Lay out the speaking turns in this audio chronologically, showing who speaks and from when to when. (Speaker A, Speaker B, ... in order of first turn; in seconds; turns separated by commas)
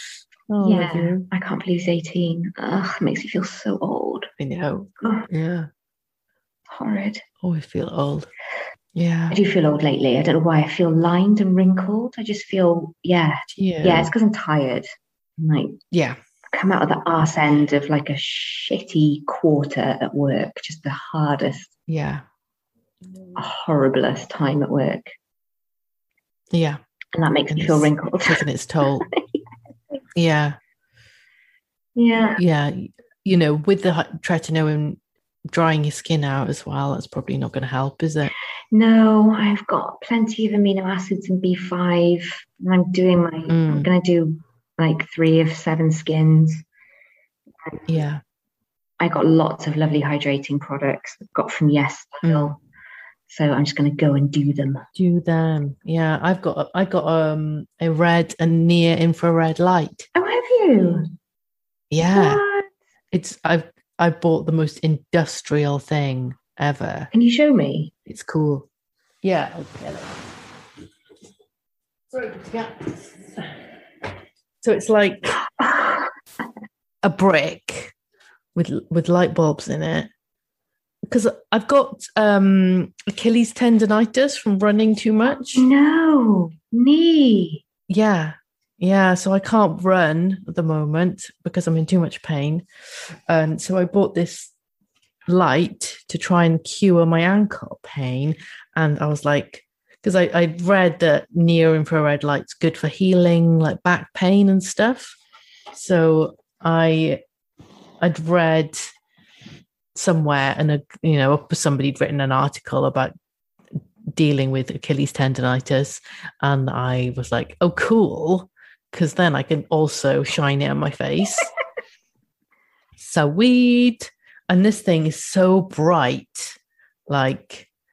Speaker A: 0.5-1.2, Speaker B: 0.6-4.3, Speaker A: 4.4-5.7, Speaker B: 5.0-5.3, Speaker B: 6.7-7.2, Speaker A: 7.4-8.3, Speaker A: 8.9-9.4, Speaker B: 9.3-14.9, Speaker A: 13.5-14.1, Speaker B: 15.4-15.8, Speaker A: 15.9-16.2, Speaker B: 16.5-21.7, Speaker A: 21.9-22.2, Speaker B: 23.4-25.1, Speaker A: 26.5-26.8, Speaker B: 27.1-28.4, Speaker A: 27.5-29.1, Speaker B: 29.0-29.4, Speaker A: 30.1-30.6, Speaker B: 31.9-32.4, Speaker A: 32.4-38.3, Speaker B: 38.7-46.6, Speaker A: 43.5-43.9, Speaker A: 47.9-48.2, Speaker B: 49.0-52.6, Speaker A: 52.2-52.5, Speaker B: 53.3-54.9, Speaker A: 54.9-60.1, Speaker B: 60.1-61.1, Speaker A: 61.9-62.4, Speaker B: 62.0-62.7, Speaker A: 63.1-67.1, Speaker B: 67.1-67.9, Speaker A: 68.0-68.7, Speaker A: 69.2-70.3, Speaker A: 72.1-73.7, Speaker A: 74.6-75.4, Speaker B: 75.4-76.1, Speaker A: 77.0-77.9, Speaker A: 78.5-80.1, Speaker A: 81.1-85.7, Speaker B: 85.5-87.6, Speaker A: 87.9-94.5, Speaker A: 95.2-105.2, Speaker A: 105.7-107.2, Speaker A: 108.0-108.9, Speaker A: 109.9-113.1, Speaker A: 114.1-121.5, Speaker A: 123.0-127.7